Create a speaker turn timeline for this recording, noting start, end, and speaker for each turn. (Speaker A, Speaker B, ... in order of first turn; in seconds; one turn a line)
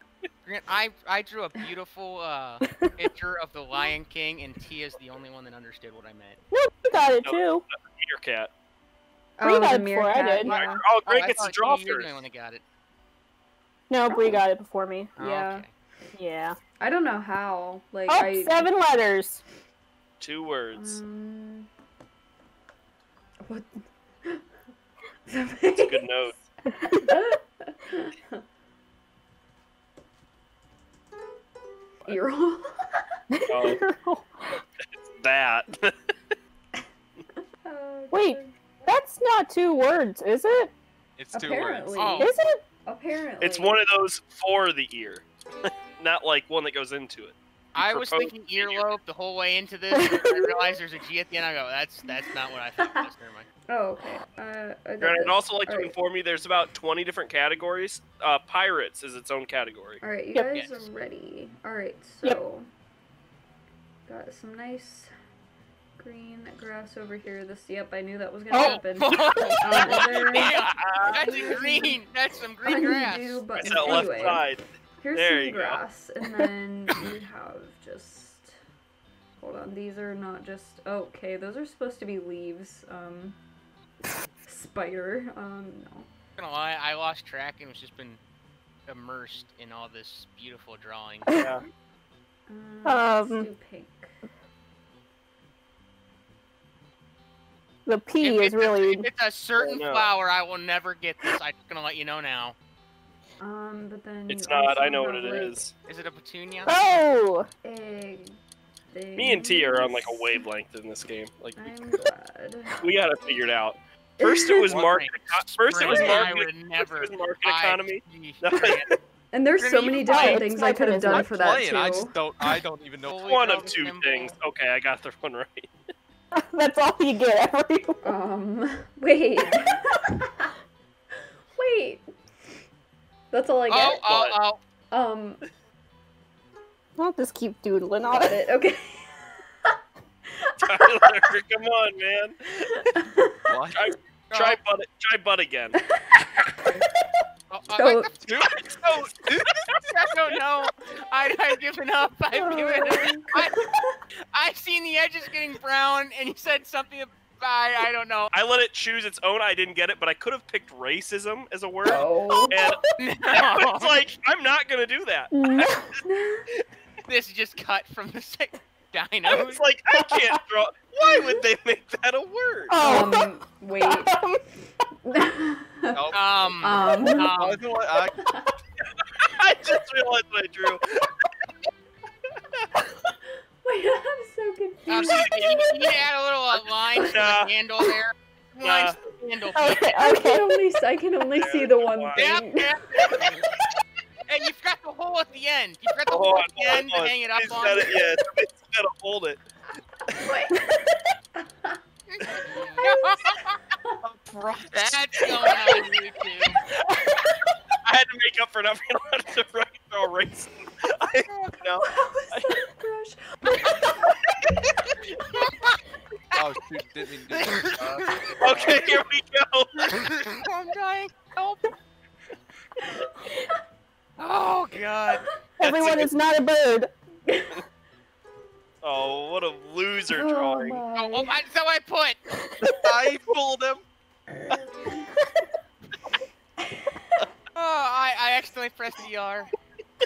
Speaker A: 0.4-6.4
Speaker B: 6.5-7.6
Speaker C: 7.2-8.5
Speaker D: 9.4-10.8
Speaker B: 9.4-10.6
Speaker C: 10.4-12.2
Speaker A: 11.0-12.6
Speaker B: 13.9-15.1
Speaker A: 15.2-15.7
Speaker D: 15.2-15.6
Speaker B: 16.1-16.6
Speaker D: 16.8-18.7
Speaker B: 18.1-19.4
Speaker C: 20.2-21.0
Speaker D: 20.7-21.7
Speaker D: 23.4-24.4
Speaker D: 25.3-28.4
Speaker C: 25.8-26.4
Speaker D: 32.0-33.0
Speaker B: 33.3-34.6
Speaker C: 33.5-33.8
Speaker C: 35.0-35.9
Speaker D: 37.6-38.5
Speaker B: 38.1-40.7
Speaker E: 41.2-42.1
Speaker D: 41.3-43.8
Speaker A: 41.9-42.3
Speaker B: 42.2-42.6
Speaker C: 43.4-48.9
Speaker A: 47.7-53.5
Speaker B: 49.9-50.6
Speaker D: 53.7-55.9
Speaker C: 55.0-60.0
Speaker D: 60.0-62.7
Speaker A: 60.5-61.0
Speaker D: 64.0-65.1
Speaker D: 66.0-72.0
Speaker B: 68.5-68.8
Speaker A: 68.5-74.4
Speaker C: 69.9-71.2
Speaker D: 72.6-74.4
Speaker C: 73.6-75.8
Speaker D: 75.0-78.5
Speaker D: 79.4-83.4
Speaker D: 84.5-86.1
Speaker A: 86.4-88.2
Speaker A: 88.9-91.4
Speaker C: 91.3-91.6
Speaker D: 92.5-94.2
Speaker B: 92.8-93.5
Speaker B: 97.8-99.1
Speaker A: 98.2-102.5
Speaker C: 99.6-100.1
Speaker D: 103.4-105.6
Speaker C: 104.3-105.7
Speaker A: 105.9-106.8
Speaker B: 106.7-107.5
Speaker D: 107.6-108.4
Speaker D: 108.9-110.5
Speaker C: 109.2-111.8
Speaker D: 111.6-112.8
Speaker C: 112.8-118.8
Speaker D: 114.2-114.7
Speaker A: 114.7-118.9
Speaker E: 115.8-116.3
Speaker D: 119.3-122.2
Speaker A: 119.6-120.4
Speaker B: 120.1-121.3
Speaker E: 121.1-123.3
Speaker A: 123.0-124.3
Speaker C: 123.3-125.7
Speaker B: 126.3-128.0
Speaker D: 128.0-130.5
Speaker D: 131.5-132.1
Speaker D: 133.3-134.0
Speaker A: 133.7-134.6
Speaker C: 133.8-134.3
Speaker D: 134.9-135.4
Speaker B: 137.0-138.4
Speaker D: 138.1-139.2
Speaker D: 140.3-141.2
Speaker C: 140.6-142.9
Speaker D: 142.8-143.4
Speaker E: 143.5-143.9
Speaker C: 143.7-145.8
Speaker A: 144.3-144.6
Speaker D: 145.9-146.8
Speaker A: 147.5-149.0
Speaker D: 147.7-148.1
Speaker E: 148.2-149.6
Speaker A: 149.7-153.7
Speaker B: 152.3-153.1
Speaker D: 152.8-154.0
Speaker A: 154.3-158.3
Speaker C: 158.3-166.0
Speaker D: 161.8-162.7
Speaker A: 163.0-164.0
Speaker B: 165.3-165.9
Speaker D: 166.0-166.5
Speaker A: 167.1-169.6
Speaker C: 169.3-172.7
Speaker B: 169.9-170.4
Speaker B: 172.7-174.4
Speaker D: 172.8-174.2
Speaker D: 175.0-177.3
Speaker E: 175.9-178.2
Speaker A: 176.1-177.6
Speaker D: 178.2-178.5
Speaker C: 179.2-181.2
Speaker D: 183.6-185.6
Speaker A: 184.9-189.9
Speaker C: 184.9-185.7
Speaker C: 186.5-187.5
Speaker C: 188.6-189.0
Speaker B: 189.5-190.5
Speaker D: 190.0-193.2
Speaker C: 191.3-192.4
Speaker A: 192.1-193.3
Speaker A: 194.3-197.9
Speaker C: 196.1-199.4
Speaker D: 200.1-200.6
Speaker D: 201.4-201.8
Speaker A: 202.1-203.6
Speaker D: 202.5-203.1
Speaker C: 204.0-205.9
Speaker A: 204.7-206.6
Speaker C: 207.8-212.5
Speaker D: 211.8-214.1
Speaker A: 215.3-215.8
Speaker E: 216.3-218.1
Speaker A: 217.3-218.8
Speaker C: 218.4-219.9
Speaker A: 219.8-221.7
Speaker D: 223.0-223.4
Speaker A: 224.2-225.2
Speaker B: 225.6-226.9
Speaker C: 225.6-226.1
Speaker D: 227.3-227.6
Speaker C: 228.8-230.8
Speaker D: 230.1-231.4
Speaker A: 230.9-232.2
Speaker C: 232.6-232.9
Speaker E: 232.7-233.8
Speaker D: 234.5-235.1
Speaker D: 236.7-237.0
Speaker A: 237.5-239.5